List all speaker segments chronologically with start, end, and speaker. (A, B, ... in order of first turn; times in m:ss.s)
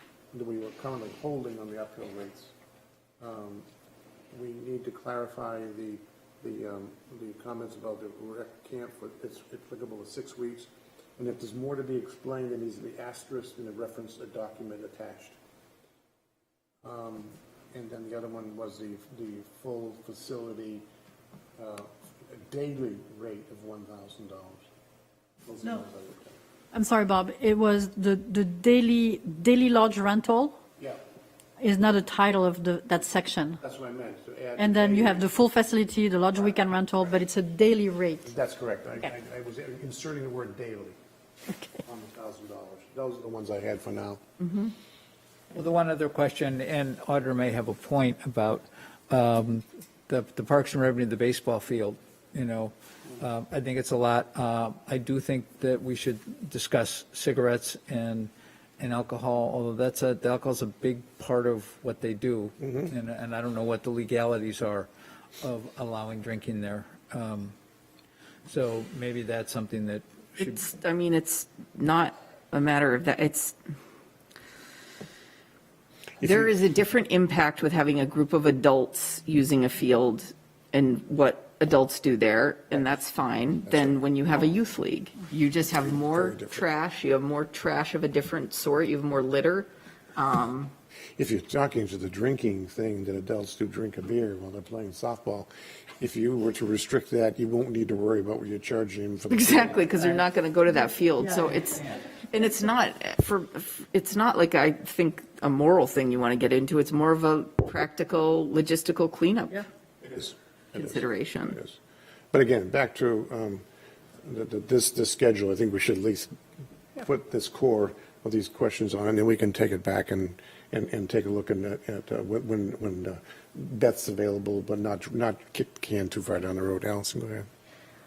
0:00.3-0:02.5 A
0:03.2-0:03.6 A
0:04.3-0:15.4 A
0:16.8-0:20.8 A
0:21.6-0:24.6 A
0:25.4-0:26.4 A
0:26.7-0:30.6 B
0:31.6-0:33.6 B
0:33.6-0:35.2 A
0:34.6-0:38.3 B
0:38.2-0:41.0 A
0:41.8-0:44.2 A
0:44.4-0:44.7 C
0:45.5-1:04.9 D
1:05.4-1:07.5 D
1:08.5-1:10.6 D
1:10.4-1:13.6 C
1:16.2-1:30.7 C
1:23.7-1:24.0 A
1:25.8-1:26.6 A
1:31.2-1:39.9 A
1:39.3-1:49.6 C
1:41.2-1:41.5 B
1:50.0-1:51.8 A
1:50.7-1:51.6 C
1:52.3-1:53.6 A
1:54.2-1:56.4 A
1:57.0-2:07.5 A